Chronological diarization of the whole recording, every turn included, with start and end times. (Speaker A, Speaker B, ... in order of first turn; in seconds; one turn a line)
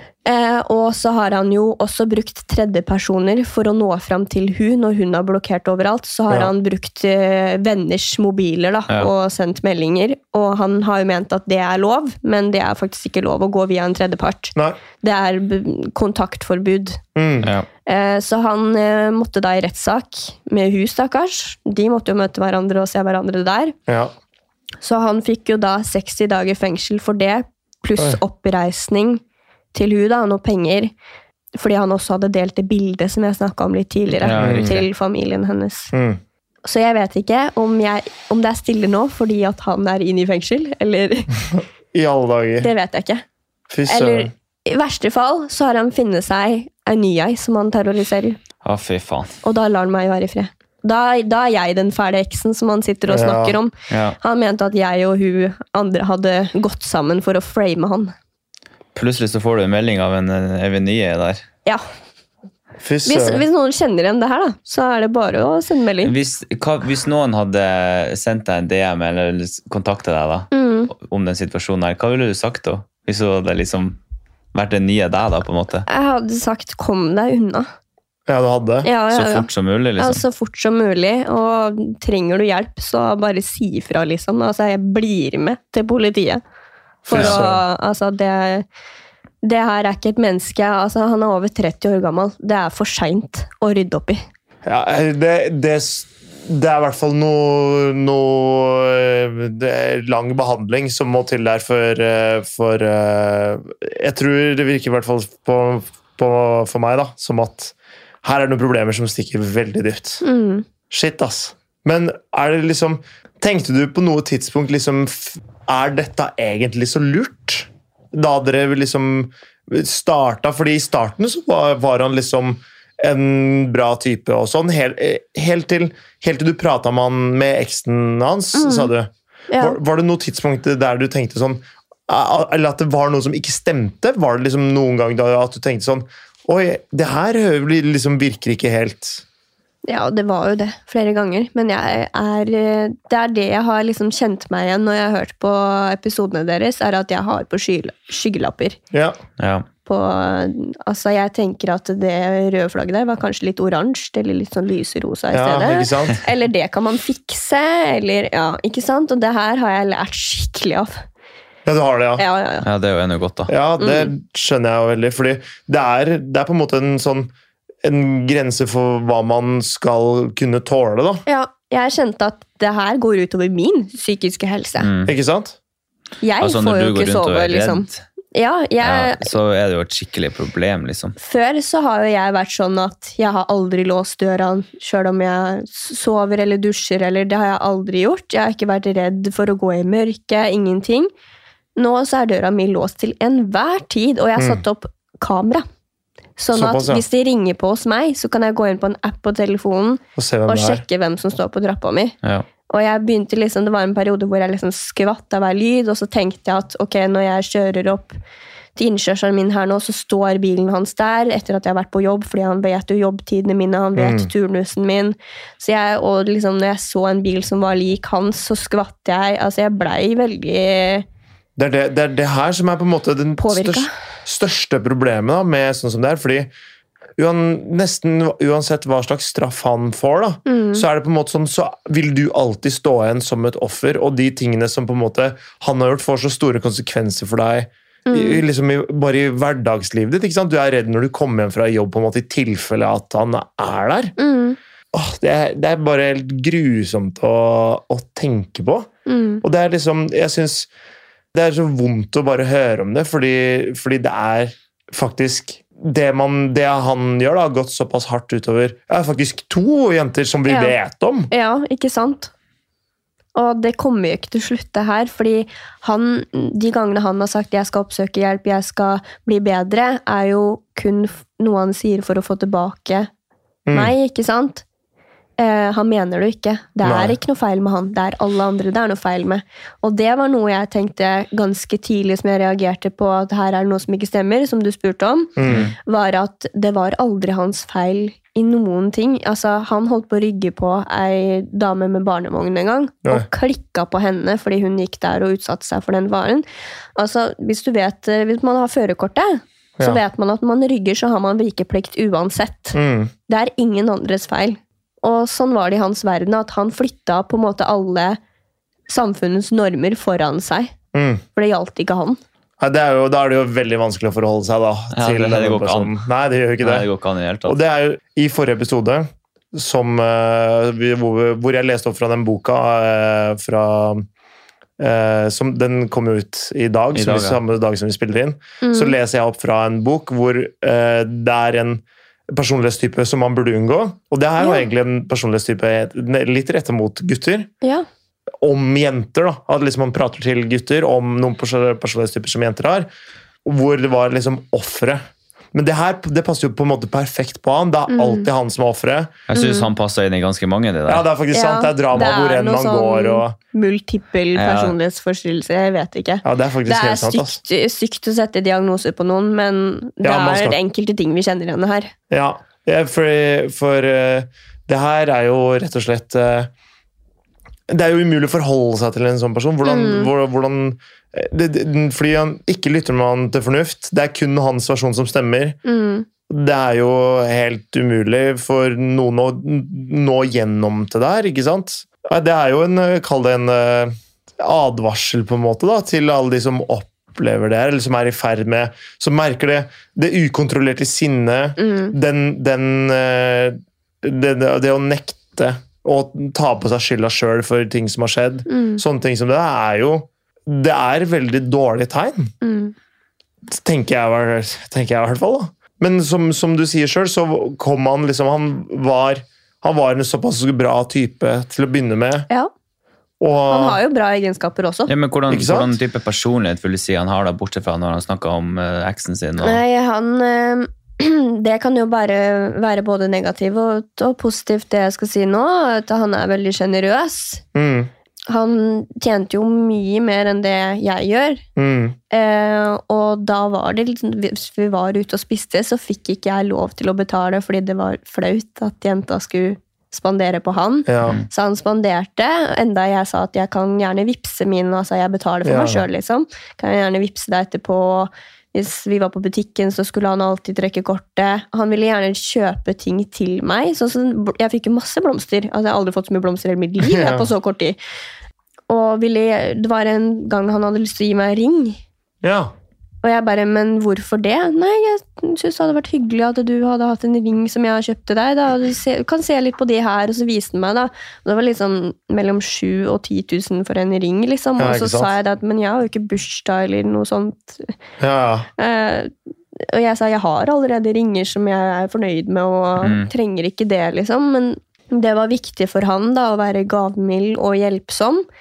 Speaker A: 0.2-17.0
Speaker B: 17.1-17.5
Speaker A: 17.9-23.7
Speaker B: 23.9-24.1
Speaker A: 24.8-29.2
Speaker A: 29.7-30.9
Speaker A: 31.5-35.9
Speaker C: 34.1-34.8
Speaker B: 34.4-34.8
Speaker B: 35.9-36.2
Speaker A: 36.6-41.3
Speaker B: 41.6-42.7
Speaker A: 42.6-43.2
Speaker B: 43.7-44.3
Speaker A: 43.9-48.4
Speaker C: 48.6-49.4
Speaker A: 49.4-58.1
Speaker B: 53.1-53.5
Speaker C: 53.9-54.2
Speaker C: 58.9-61.4
Speaker B: 62.8-63.5
Speaker A: 63.0-66.1
Speaker C: 66.0-74.0
Speaker A: 70.5-70.9
Speaker C: 74.5-75.8
Speaker A: 75.9-77.7
Speaker B: 78.3-78.9
Speaker A: 78.8-86.4
Speaker C: 79.1-80.2
Speaker B: 87.0-87.6
Speaker A: 87.1-88.6
Speaker C: 87.1-87.4
Speaker A: 89.4-94.2
Speaker B: 94.6-110.2
Speaker A: 110.2-110.7
Speaker B: 110.9-139.2
Speaker A: 128.5-128.9
Speaker A: 129.5-129.8
Speaker A: 139.8-148.8
Speaker B: 148.9-149.2
Speaker C: 149.4-149.7
Speaker A: 149.8-161.0
Speaker B: 155.3-156.2
Speaker B: 161.7-162.2
Speaker A: 162.2-162.6
Speaker C: 162.6-163.5
Speaker B: 163.5-167.3
Speaker A: 163.8-164.1
Speaker B: 167.8-171.2
Speaker A: 171.2-174.9
Speaker C: 174.8-175.1
Speaker B: 175.1-175.6
Speaker A: 176.2-179.3
Speaker C: 176.4-178.0
Speaker C: 178.8-181.1
Speaker A: 181.2-191.1
Speaker A: 191.8-195.6
Speaker B: 194.4-194.6
Speaker A: 196.4-202.2
Speaker B: 196.5-197.0
Speaker B: 200.2-200.8
Speaker A: 202.7-208.2
Speaker A: 208.8-221.1
Speaker B: 213.9-214.3
Speaker B: 221.6-226.5
Speaker A: 223.4-223.9
Speaker B: 227.2-244.1
Speaker A: 230.4-230.8
Speaker A: 238.1-238.4
Speaker A: 244.2-244.6
Speaker B: 244.9-248.9
Speaker A: 249.1-249.4
Speaker B: 249.4-250.7
Speaker B: 251.3-261.3
Speaker A: 260.5-260.8
Speaker A: 261.3-262.3
Speaker A: 263.3-273.1
Speaker B: 273.7-273.9
Speaker A: 273.7-274.6
Speaker A: 275.4-296.4
Speaker B: 276.8-277.1
Speaker B: 285.4-285.7
Speaker C: 285.4-285.7
Speaker A: 296.9-308.2
Speaker B: 302.7-303.1
Speaker A: 308.9-310.7
Speaker B: 310.9-311.2
Speaker A: 311.3-312.2
Speaker B: 312.6-316.9
Speaker C: 314.9-315.9
Speaker C: 316.6-317.6
Speaker B: 317.4-324.1
Speaker B: 324.8-337.5
Speaker C: 326.9-327.4
Speaker A: 328.6-328.9
Speaker A: 334.4-334.6
Speaker B: 338.4-342.9
Speaker B: 343.4-345.0
Speaker B: 345.5-349.2
Speaker A: 347.9-348.3
Speaker C: 349.3-351.1
Speaker A: 349.3-349.7
Speaker B: 350.9-353.4
Speaker A: 351.3-361.9
Speaker C: 354.3-354.8
Speaker B: 356.2-357.4
Speaker B: 360.0-360.6
Speaker B: 362.1-366.5
Speaker B: 367.7-375.6
Speaker A: 369.6-370.1
Speaker A: 375.6-376.1
Speaker B: 376.3-402.3
Speaker A: 391.6-391.9
Speaker A: 398.5-398.8
Speaker A: 402.4-402.7
Speaker B: 403.5-412.3
Speaker B: 413.2-413.8
Speaker A: 413.5-414.9
Speaker C: 414.9-419.6
Speaker B: 415.3-415.7
Speaker A: 419.4-427.4
Speaker B: 427.5-427.9
Speaker A: 428.3-431.4
Speaker B: 431.6-432.0
Speaker A: 432.1-457.8
Speaker B: 440.9-441.2
Speaker B: 445.4-445.9
Speaker B: 456.8-457.3
Speaker A: 458.7-461.8
Speaker B: 462.2-462.5
Speaker A: 463.0-477.7
Speaker B: 474.6-475.1
Speaker B: 478.0-478.5
Speaker A: 478.6-488.2
Speaker C: 482.8-483.1